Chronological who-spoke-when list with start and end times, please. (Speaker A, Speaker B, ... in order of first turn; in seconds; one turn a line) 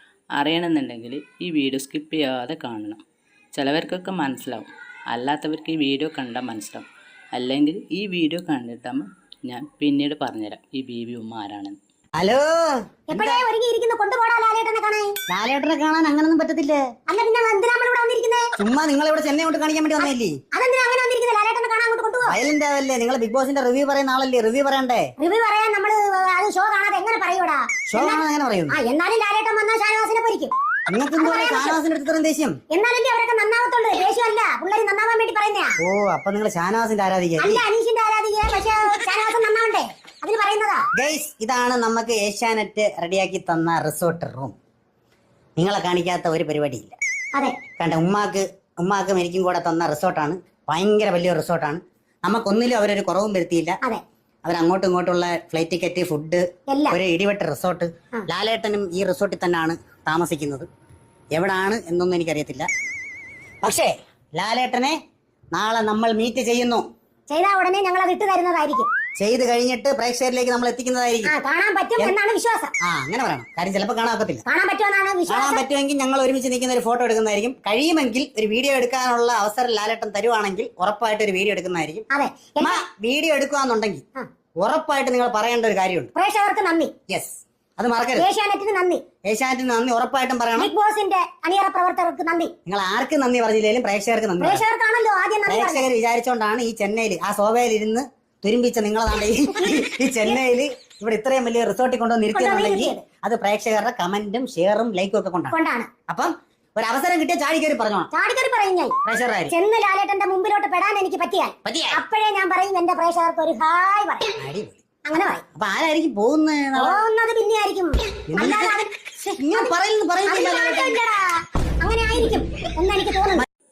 Speaker A: 0.3-3.0
Speaker A: 3.5-11.8
Speaker B: 12.2-12.5
Speaker B: 13.1-13.4
Speaker C: 13.1-15.2
Speaker B: 15.3-16.8
Speaker C: 17.1-18.5
Speaker B: 18.6-20.3
Speaker C: 20.0-22.4
Speaker B: 22.2-25.1
Speaker C: 25.2-30.5
Speaker B: 27.9-28.8
Speaker B: 30.9-32.6
Speaker C: 31.2-31.8
Speaker C: 32.7-35.8
Speaker B: 35.8-37.6
Speaker C: 37.4-40.8
Speaker B: 40.9-44.5
Speaker B: 45.6-46.9
Speaker C: 47.3-47.6
Speaker B: 47.8-53.8
Speaker B: 54.4-60.7
Speaker C: 56.7-57.0
Speaker B: 61.3-62.7
Speaker B: 63.6-65.0
Speaker B: 65.5-66.8
Speaker C: 67.3-68.9
Speaker B: 69.2-71.3
Speaker C: 71.2-72.7
Speaker B: 72.8-74.4
Speaker C: 74.5-75.6
Speaker B: 75.3-82.0
Speaker C: 82.1-82.8
Speaker B: 82.6-84.0
Speaker B: 84.6-86.1
Speaker C: 86.1-86.9
Speaker B: 87.1-88.3
Speaker C: 88.2-89.0
Speaker B: 89.2-90.7
Speaker C: 90.6-92.5
Speaker B: 92.7-94.6
Speaker C: 94.4-95.9
Speaker B: 95.5-105.6
Speaker C: 99.6-100.3
Speaker C: 102.3-103.0
Speaker C: 105.5-105.9
Speaker B: 106.1-108.1
Speaker C: 108.1-109.0
Speaker B: 109.0-109.5
Speaker C: 109.5-114.3
Speaker B: 111.6-112.0
Speaker B: 114.4-114.8
Speaker C: 115.0-115.4
Speaker B: 115.5-117.0
Speaker C: 116.8-118.9
Speaker B: 118.3-121.0
Speaker C: 119.5-123.5